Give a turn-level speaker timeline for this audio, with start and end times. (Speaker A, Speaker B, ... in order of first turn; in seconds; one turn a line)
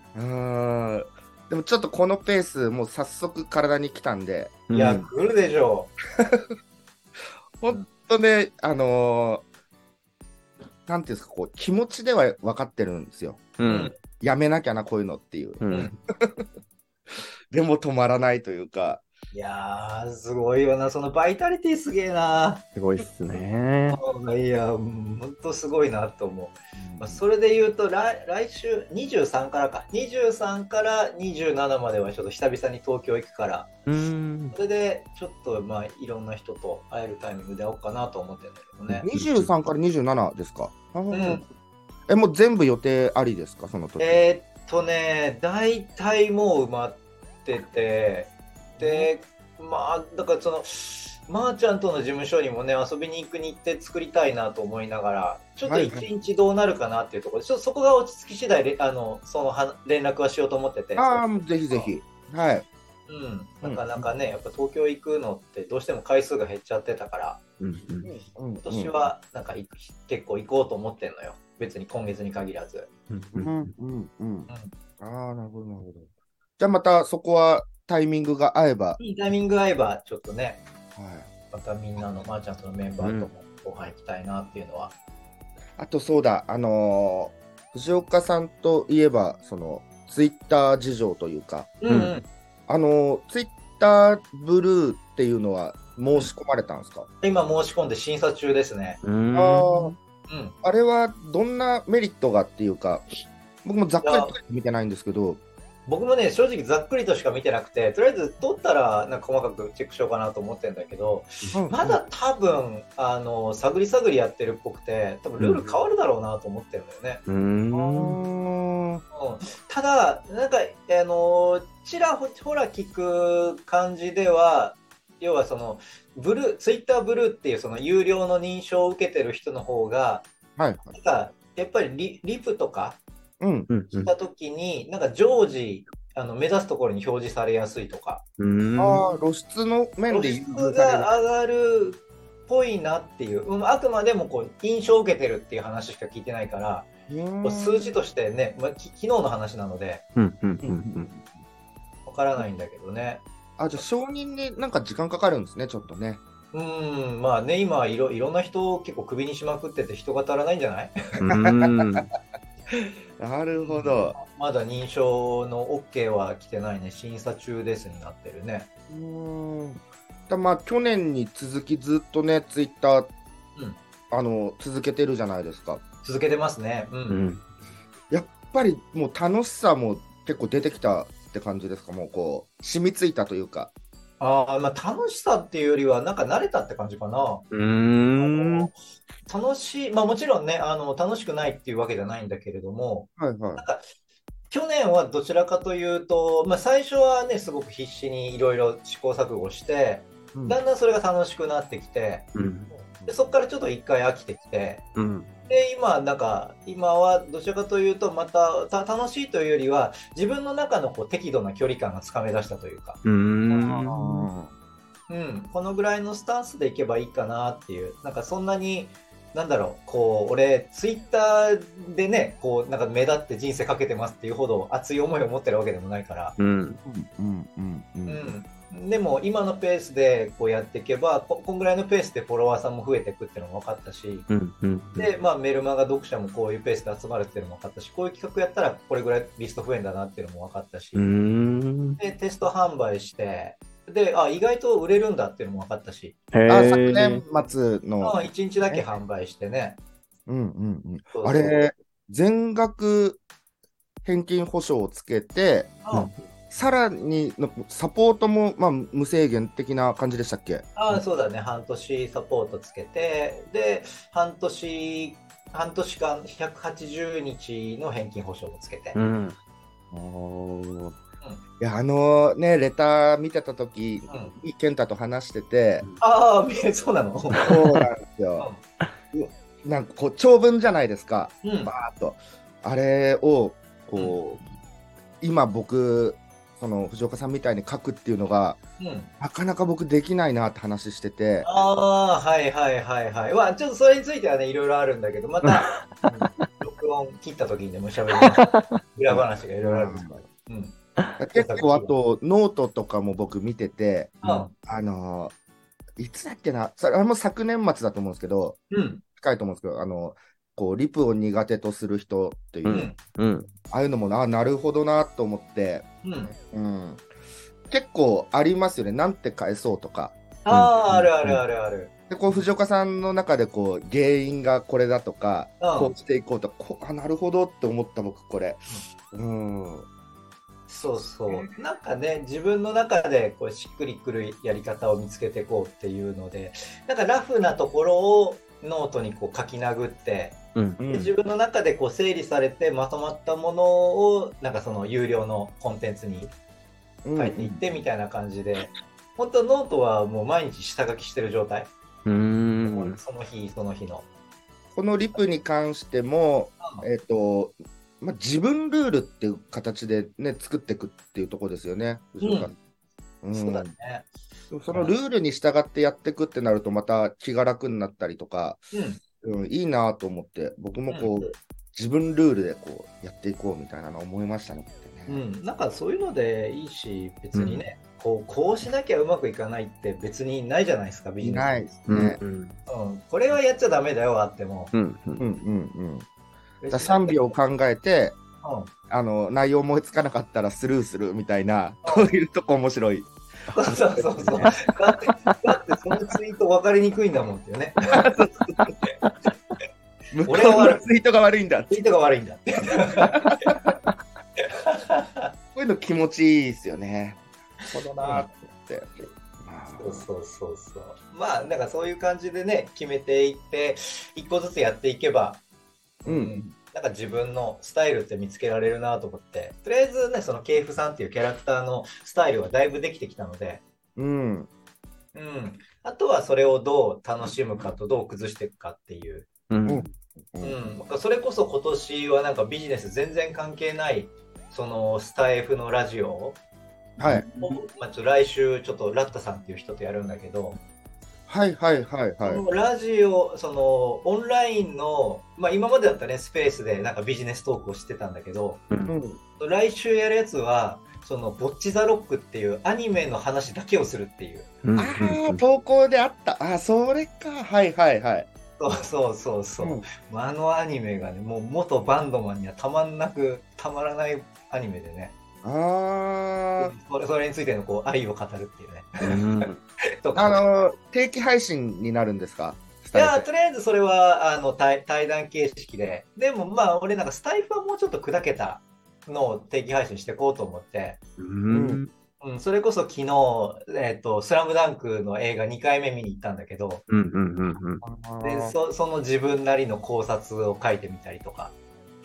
Speaker A: 0.1-4.7
Speaker B: 4.7-5.1
Speaker C: 4.7-5.9
Speaker A: 6.2-6.5
Speaker A: 7.6-9.4
Speaker A: 10.9-13.6
Speaker B: 13.6-13.9
Speaker C: 13.6-13.9
Speaker A: 14.1-15.6
Speaker B: 15.6-15.9
Speaker C: 15.7-15.9
Speaker A: 16.2-16.4
Speaker A: 17.5-19.0
Speaker C: 19.3-22.6
Speaker B: 22.7-24.0
Speaker C: 23.9-33.8
Speaker A: 26.7-27.2
Speaker B: 33.9-34.5
Speaker C: 34.5-39.0
Speaker A: 39.0-41.5
Speaker B: 39.0-39.5
Speaker C: 41.1-41.4
Speaker A: 42.1-44.2
Speaker C: 44.0-61.9
Speaker A: 48.8-49.1
Speaker A: 55.6-56.1
Speaker A: 61.0-62.6
Speaker C: 63.1-67.4
Speaker A: 63.6-64.0
Speaker B: 67.6-68.1
Speaker A: 68.0-69.0
Speaker C: 68.6-72.9
Speaker B: 73.1-73.7
Speaker A: 73.4-76.1
Speaker A: 76.6-79.0
Speaker C: 79.0-80.6
Speaker A: 81.0-81.3
Speaker C: 81.5-84.9
Speaker B: 83.0-83.3
Speaker A: 85.8-91.8
Speaker C: 91.8-92.3
Speaker B: 91.9-92.1
Speaker A: 92.7-97.1
Speaker C: 97.2-99.0
Speaker B: 99.0-100.0
Speaker A: 99.3-99.9
Speaker C: 100.3-100.5
Speaker A: 100.6-103.1
Speaker A: 103.6-105.4
Speaker C: 104.0-104.3
Speaker C: 105.9-117.2
Speaker A: 111.5-112.0
Speaker B: 115.4-115.6
Speaker B: 117.3-118.2
Speaker A: 117.7-119.0
Speaker C: 119.1-130.3
Speaker A: 130.6-130.9
Speaker C: 130.9-133.0
Speaker A: 133.4-133.7
Speaker B: 133.7-134.1
Speaker C: 133.9-138.2
Speaker B: 138.4-139.0
Speaker A: 138.8-141.1
Speaker C: 140.1-146.9
Speaker A: 147.1-147.9
Speaker C: 147.4-150.0
Speaker B: 150.2-151.1
Speaker A: 150.6-151.2
Speaker C: 152.1-153.2
Speaker A: 153.6-156.2
Speaker C: 156.5-160.9
Speaker B: 161.2-162.1
Speaker A: 161.4-162.0
Speaker A: 162.7-164.2
Speaker C: 163.5-168.7
Speaker A: 168.9-173.1
Speaker A: 174.1-175.8
Speaker C: 176.0-177.2
Speaker B: 177.1-177.4
Speaker A: 178.1-183.7
Speaker C: 184.2-187.4
Speaker B: 187.5-188.7
Speaker C: 188.2-188.7
Speaker C: 189.2-193.8
Speaker A: 193.2-193.6
Speaker C: 194.5-202.3
Speaker B: 202.3-202.7
Speaker C: 202.8-204.8
Speaker A: 202.9-203.3
Speaker B: 204.9-205.3
Speaker C: 205.5-213.8
Speaker B: 213.0-214.3
Speaker A: 213.8-214.5
Speaker C: 215.1-226.4
Speaker B: 226.4-226.8
Speaker A: 226.8-228.3
Speaker C: 228.1-234.3
Speaker B: 234.3-235.1
Speaker C: 235.0-241.1
Speaker B: 240.9-242.0
Speaker C: 242.0-247.0
Speaker B: 246.3-247.2
Speaker A: 246.5-248.8
Speaker C: 248.0-249.8
Speaker A: 250.3-253.2
Speaker C: 251.1-251.6
Speaker A: 254.0-260.7
Speaker C: 255.8-256.1
Speaker C: 260.8-269.0
Speaker B: 268.9-269.4
Speaker A: 269.9-271.0
Speaker A: 271.6-275.9
Speaker C: 276.0-277.6
Speaker B: 277.4-277.8
Speaker A: 277.4-278.5
Speaker A: 279.1-284.4
Speaker C: 281.4-281.7
Speaker A: 285.2-288.6
Speaker C: 288.8-289.1
Speaker A: 289.2-291.5
Speaker C: 291.4-300.8
Speaker A: 299.1-300.2
Speaker A: 301.2-305.3
Speaker C: 301.3-301.9
Speaker C: 304.2-304.5
Speaker A: 306.0-308.6
Speaker C: 308.7-309.0
Speaker A: 309.1-312.9
Speaker B: 312.6-313.5
Speaker C: 312.7-312.9
Speaker A: 313.7-317.0
Speaker C: 316.0-316.3
Speaker A: 317.7-320.1
Speaker C: 320.4-322.4
Speaker B: 320.5-321.4
Speaker A: 322.1-328.6
Speaker C: 325.6-325.9
Speaker A: 329.1-329.9
Speaker C: 330.7-340.4
Speaker A: 331.3-331.5
Speaker A: 340.8-341.1
Speaker C: 340.9-346.3
Speaker A: 347.0-347.6
Speaker C: 347.1-351.7
Speaker B: 352.0-353.0
Speaker C: 352.6-354.1
Speaker A: 354.7-362.6
Speaker C: 356.6-356.9
Speaker C: 362.2-362.5
Speaker A: 363.2-363.7
Speaker C: 363.3-364.1
Speaker A: 364.5-368.6
Speaker C: 364.7-364.9
Speaker C: 368.7-369.0
Speaker A: 369.2-375.2
Speaker C: 370.9-371.3
Speaker C: 375.1-381.7
Speaker B: 377.3-377.6
Speaker A: 381.2-382.2
Speaker B: 381.9-382.6
Speaker C: 382.7-384.7
Speaker B: 384.7-385.2
Speaker A: 385.2-386.1
Speaker C: 386.6-387.3
Speaker A: 386.7-388.2
Speaker C: 388.4-388.7
Speaker A: 388.9-393.1
Speaker C: 391.8-392.1
Speaker C: 393.5-398.1
Speaker A: 393.7-394.5
Speaker A: 397.9-398.7
Speaker A: 400.1-401.8
Speaker C: 400.2-400.8
Speaker C: 401.7-403.6
Speaker A: 403.1-403.8
Speaker C: 404.4-405.3
Speaker A: 405.5-407.2
Speaker C: 407.6-408.2
Speaker A: 407.7-410.1
Speaker C: 409.8-415.4
Speaker C: 416.0-423.6
Speaker A: 416.0-416.5
Speaker A: 423.9-424.5
Speaker C: 425.1-429.3
Speaker B: 429.5-429.9
Speaker A: 429.6-430.6
Speaker C: 430.4-436.4
Speaker A: 437.0-437.2
Speaker B: 437.0-437.4
Speaker C: 437.4-440.6
Speaker A: 441.3-442.4
Speaker C: 442.2-448.6
Speaker A: 448.9-449.2
Speaker C: 449.4-454.5
Speaker B: 454.6-455.4
Speaker A: 454.8-458.3
Speaker C: 458.6-465.1
Speaker A: 459.6-459.9
Speaker A: 465.4-466.7
Speaker C: 466.6-469.2
Speaker B: 469.0-469.6
Speaker C: 470.0-470.7
Speaker A: 470.1-473.3
Speaker C: 472.9-481.0
Speaker B: 481.2-481.9
Speaker A: 481.5-481.8
Speaker C: 482.2-486.8
Speaker B: 486.9-487.8
Speaker A: 487.8-488.5
Speaker C: 488.2-491.5